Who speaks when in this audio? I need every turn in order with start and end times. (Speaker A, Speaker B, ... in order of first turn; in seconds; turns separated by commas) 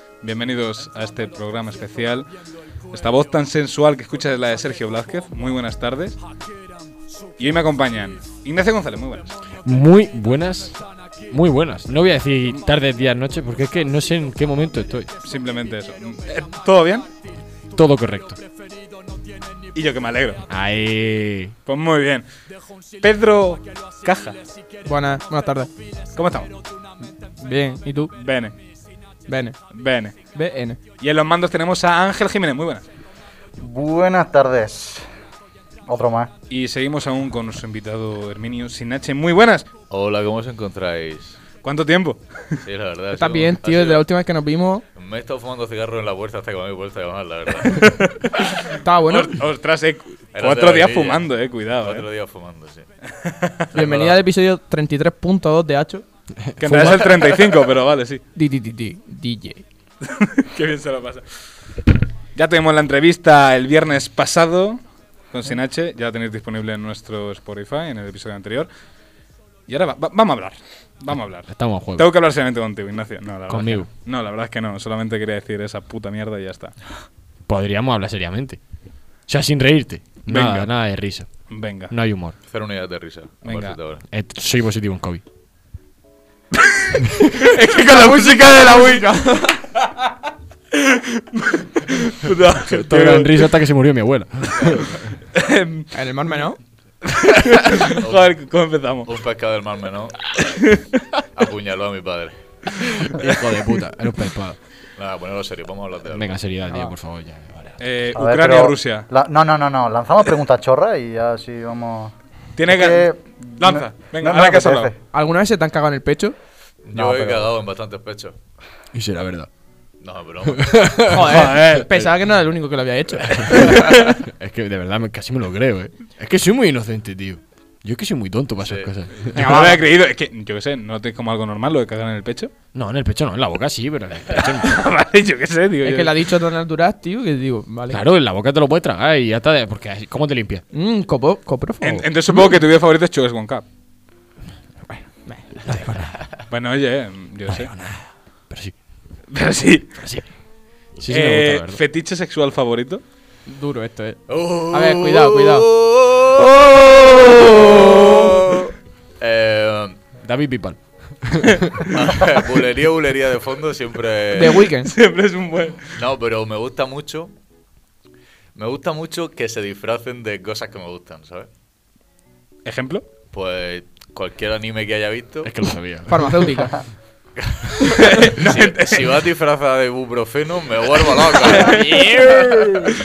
Speaker A: 0.2-2.3, Speaker A: 2.9-6.2, Speaker A: 7.4-9.3, Speaker B: 9.6-15.2, Speaker A: 15.2-17.1, Speaker B: 17.7-18.4, Speaker A: 19.7-20.4, Speaker B: 20.5-21.6, Speaker A: 21.7-22.3, Speaker A: 23.0-24.4, Speaker C: 24.8-25.7, Speaker A: 26.1-26.5, Speaker C: 27.3-28.1, Speaker A: 28.1-28.6, Speaker C: 29.3-29.6, Speaker A: 29.7-30.2, Speaker C: 30.3-30.8, Speaker A: 31.0-32.8, Speaker D: 33.6-35.1, Speaker D: 35.9-36.3, Speaker A: 36.5-39.7, Speaker E: 39.9-41.4, Speaker A: 41.6-42.6, Speaker E: 42.6-44.0, Speaker C: 43.1-44.8, Speaker E: 45.0-48.1, Speaker C: 48.8-49.4, Speaker A: 49.1-52.1, Speaker E: 50.3-52.9, Speaker A: 53.2-53.6, Speaker E: 53.7-54.2, Speaker C: 53.7-56.0, Speaker B: 56.4-56.9, Speaker A: 56.6-58.2, Speaker C: 56.6-57.5, Speaker C: 58.4-59.6, Speaker A: 60.0-61.2, Speaker A: 62.4-68.7, Speaker A: 69.7-76.8, Speaker B: 71.5-72.1, Speaker B: 73.5-73.9, Speaker B: 77.5-78.6, Speaker B: 79.3-81.3, Speaker A: 80.3-80.7, Speaker A: 81.5-81.9, Speaker B: 81.9-82.3, Speaker E: 82.5-84.0, Speaker A: 83.4-83.8, Speaker B: 84.1-85.2, Speaker A: 87.5-89.1, Speaker C: 87.6-89.6, Speaker A: 90.7-93.5, Speaker B: 92.7-95.1, Speaker A: 95.3-95.9, Speaker C: 95.9-96.6, Speaker A: 97.0-99.1, Speaker E: 98.0-98.3, Speaker E: 99.1-100.3, Speaker A: 100.6-101.0, Speaker E: 101.3-102.4, Speaker B: 103.1-104.6, Speaker E: 105.0-106.3, Speaker B: 106.0-107.8, Speaker C: 106.7-106.9, Speaker A: 107.8-109.1, Speaker D: 108.1-112.1, Speaker A: 112.5-114.9, Speaker D: 112.7-115.0, Speaker C: 115.1-116.4, Speaker E: 116.8-118.3, Speaker D: 117.0-117.5, Speaker B: 118.9-119.5, Speaker E: 120.0-120.9, Speaker B: 120.5-121.3, Speaker C: 121.1-124.0, Speaker A: 121.3-121.9, Speaker B: 123.4-129.6, Speaker E: 123.7-124.0, Speaker E: 128.6-128.9, Speaker C: 129.3-129.8, Speaker A: 129.4-132.5, Speaker B: 132.7-134.8, Speaker A: 134.3-136.1, Speaker C: 135.8-138.0, Speaker B: 137.9-140.6, Speaker C: 140.7-142.1, Speaker A: 141.8-143.7, Speaker C: 145.3-145.8, Speaker B: 145.6-146.1, Speaker A: 146.5-147.7, Speaker B: 147.5-148.8, Speaker A: 149.3-149.9, Speaker B: 150.0-150.2, Speaker B: 151.0-151.8, Speaker A: 151.1-153.0, Speaker C: 153.5-155.7, Speaker E: 154.3-160.0, Speaker B: 160.2-161.8, Speaker E: 161.9-164.7, Speaker C: 164.3-164.9, Speaker A: 164.8-165.9, Speaker E: 165.9-167.3, Speaker E: 168.6-171.5, Speaker A: 172.7-173.1, Speaker E: 173.3-175.7, Speaker B: 175.4-176.3, Speaker C: 176.1-176.8, Speaker E: 177.4-182.1, Speaker A: 178.0-179.1, Speaker C: 181.5-182.7, Speaker A: 181.6-181.9